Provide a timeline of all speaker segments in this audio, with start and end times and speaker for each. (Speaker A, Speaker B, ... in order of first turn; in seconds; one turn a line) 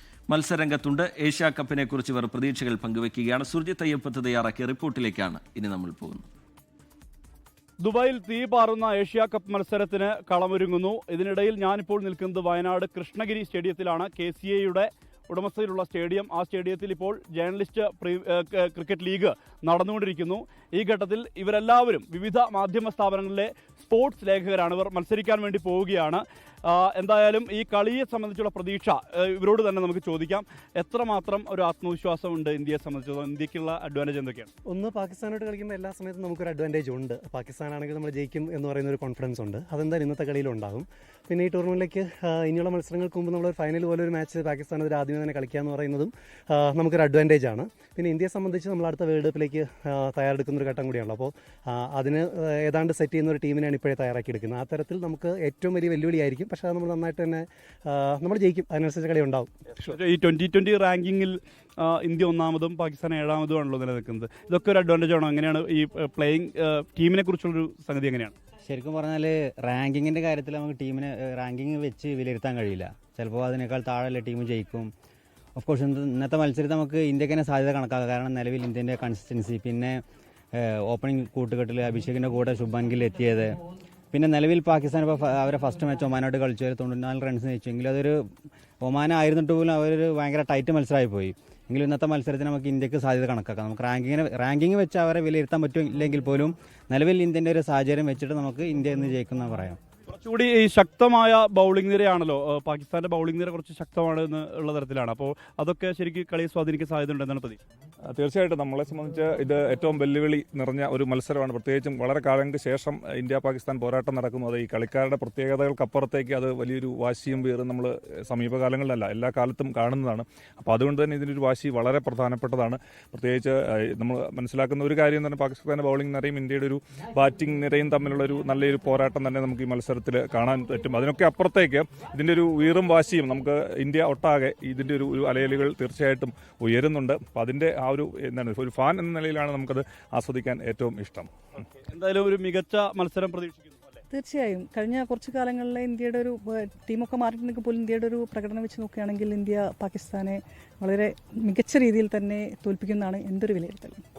Speaker A: 0.3-6.2
Speaker B: 7.8-34.5
Speaker C: 34.7-59.5
Speaker B: 59.8-68.3
Speaker D: 68.6-74.9
Speaker D: 75.5-80.0
Speaker D: 80.5-83.5
Speaker D: 84.1-88.2
Speaker D: 88.8-99.8
Speaker B: 100.1-107.6
Speaker E: 108.1-141.3
Speaker B: 141.9-144.0
Speaker F: 144.1-154.0